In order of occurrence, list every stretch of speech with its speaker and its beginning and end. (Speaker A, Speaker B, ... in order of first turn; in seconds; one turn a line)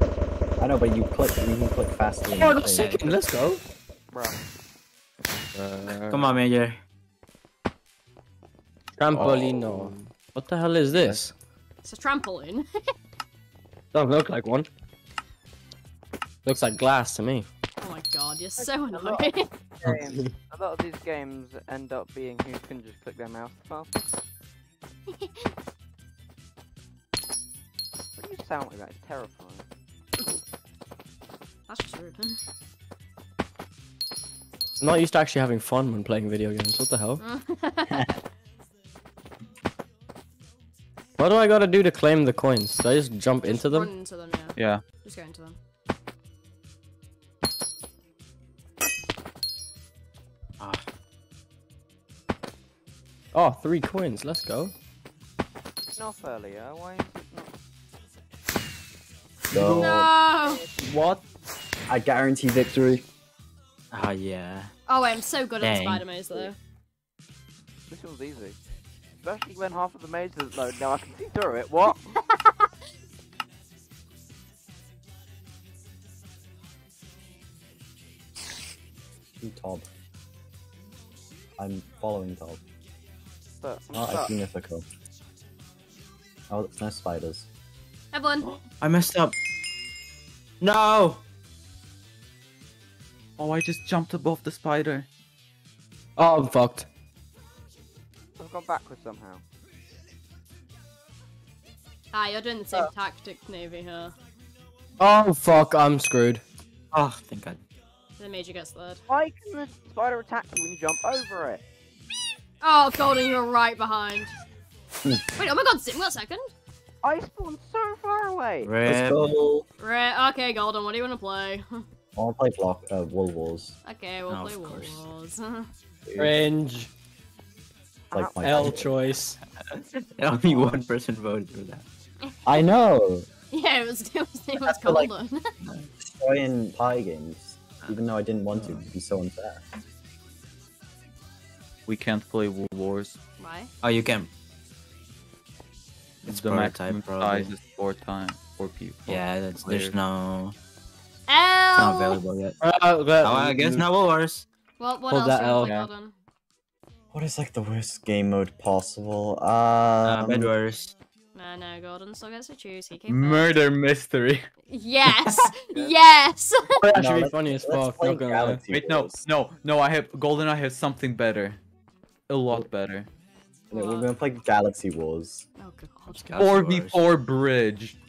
Speaker A: 0.6-2.9
Speaker B: 2.4-3.6
Speaker C: 2.6-3.2
Speaker D: 4.1-4.4
Speaker E: 5.5-6.3
Speaker C: 5.9-6.8
Speaker B: 9.0-11.3
Speaker E: 9.1-9.9
Speaker E: 10.9-11.2
Speaker F: 11.8-12.7
Speaker B: 13.9-14.7
Speaker B: 16.4-17.5
Speaker F: 17.8-19.5
Speaker D: 18.6-24.1
Speaker D: 28.1-29.6
Speaker F: 31.7-32.4
Speaker B: 34.8-37.2
Speaker F: 37.2-38.1
Speaker B: 41.2-43.9
Speaker F: 43.4-45.6
Speaker E: 44.5-44.8
Speaker C: 50.6-50.8
Speaker B: 53.3-54.7
Speaker D: 55.9-57.5
Speaker A: 59.5-60.1
Speaker E: 59.5-59.9
Speaker F: 59.8-60.6
Speaker E: 60.8-61.2
Speaker A: 61.9-63.0
Speaker C: 63.9-64.7
Speaker F: 64.9-66.6
Speaker C: 65.6-66.0
Speaker D: 67.9-68.6
Speaker D: 69.2-72.0
Speaker A: 79.4-79.8
Speaker A: 81.6-82.6
Speaker D: 83.6-84.3
Speaker A: 83.9-84.8
Speaker A: 86.5-87.5
Speaker F: 88.1-88.6
Speaker C: 88.8-89.3
Speaker C: 90.6-91.2
Speaker E: 93.4-95.1
Speaker B: 96.2-96.9
Speaker D: 98.4-99.4
Speaker F: 102.1-104.1
Speaker B: 105.0-106.4
Speaker C: 106.9-107.6
Speaker F: 108.2-109.0
Speaker D: 109.1-111.6
Speaker F: 112.6-114.3
Speaker F: 115.4-116.5
Speaker D: 117.0-118.7
Speaker C: 118.6-119.4
Speaker A: 118.8-119.7
Speaker F: 119.8-121.8
Speaker A: 122.2-123.8
Speaker F: 123.8-125.7
Speaker C: 124.3-125.0
Speaker E: 126.1-126.3
Speaker B: 126.2-126.9
Speaker A: 128.1-128.9
Speaker D: 128.1-128.7
Speaker B: 128.4-129.4
Speaker C: 129.8-131.8
Speaker A: 132.4-133.3
Speaker F: 133.5-135.5
Speaker A: 134.6-135.1
Speaker A: 136.0-139.6
Speaker E: 141.9-143.2
Speaker F: 143.4-143.7
Speaker C: 143.8-144.3
Speaker C: 146.2-147.5
Speaker E: 146.2-149.9
Speaker C: 149.1-150.6
Speaker F: 151.3-152.2
Speaker C: 151.8-152.6
Speaker B: 152.6-153.8
Speaker C: 153.2-154.4
Speaker F: 154.8-156.1
Speaker B: 155.1-155.7
Speaker E: 155.6-155.9
Speaker A: 157.1-160.5
Speaker C: 160.0-160.9
Speaker F: 161.3-163.6
Speaker E: 163.1-164.4
Speaker F: 164.7-166.8
Speaker B: 166.8-168.6
Speaker A: 166.9-169.2
Speaker E: 168.4-171.6
Speaker E: 172.3-173.1
Speaker A: 173.7-175.4
Speaker F: 173.7-174.1
Speaker F: 175.6-176.2
Speaker C: 176.1-177.0
Speaker E: 176.4-178.0